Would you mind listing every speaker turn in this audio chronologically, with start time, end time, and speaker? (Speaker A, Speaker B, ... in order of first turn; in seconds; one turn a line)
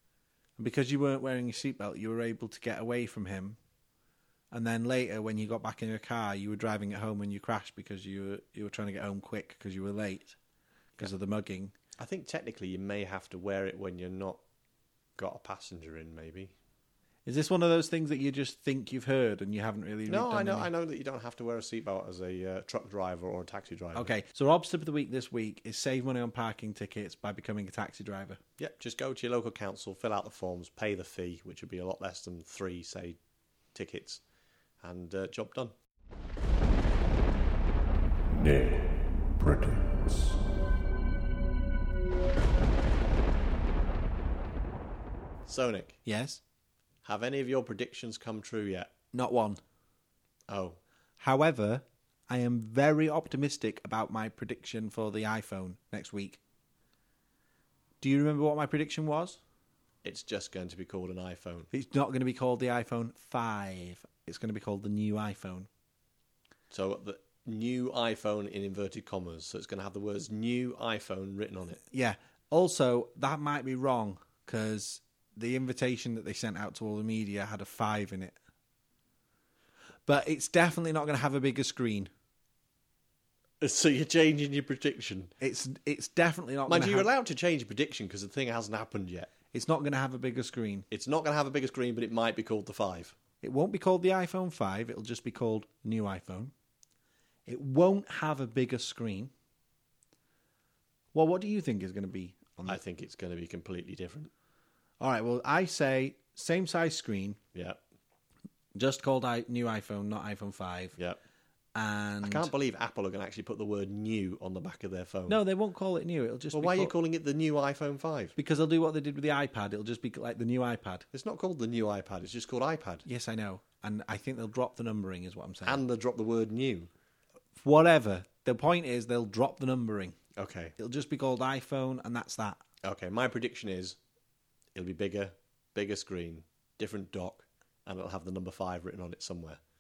Speaker A: 0.6-3.6
Speaker A: 4.5-10.4
Speaker A: 11.0-11.7
Speaker B: 12.0-14.4
Speaker B: 15.2-16.5
Speaker A: 17.2-20.7
Speaker B: 20.1-24.1
Speaker A: 23.9-28.4
Speaker B: 28.6-33.2
Speaker B: 33.7-34.2
Speaker B: 34.8-35.7
Speaker B: 38.4-38.8
Speaker B: 39.4-40.0
Speaker B: 45.5-46.0
Speaker A: 46.0-46.4
Speaker B: 47.0-48.9
Speaker A: 49.1-49.6
Speaker B: 50.5-50.8
Speaker A: 51.2-56.4
Speaker A: 58.0-59.4
Speaker B: 60.0-61.7
Speaker A: 61.7-65.7
Speaker B: 66.7-71.8
Speaker A: 71.9-78.4
Speaker A: 80.0-82.1
Speaker B: 83.6-85.3
Speaker A: 85.4-87.1
Speaker B: 86.7-89.3
Speaker A: 89.5-90.9
Speaker B: 90.9-93.2
Speaker A: 93.4-96.5
Speaker A: 97.5-99.3
Speaker A: 101.1-102.8
Speaker B: 102.7-104.3
Speaker A: 105.0-107.4
Speaker B: 107.5-107.8
Speaker A: 108.8-111.0
Speaker A: 111.8-112.5
Speaker B: 112.2-115.4
Speaker A: 115.3-116.9
Speaker B: 116.5-118.4
Speaker A: 118.4-121.0
Speaker B: 121.1-123.0
Speaker A: 123.0-125.8
Speaker B: 125.6-126.9
Speaker A: 127.6-130.2
Speaker B: 130.4-130.8
Speaker A: 130.8-132.6
Speaker B: 132.8-134.0
Speaker B: 134.7-139.6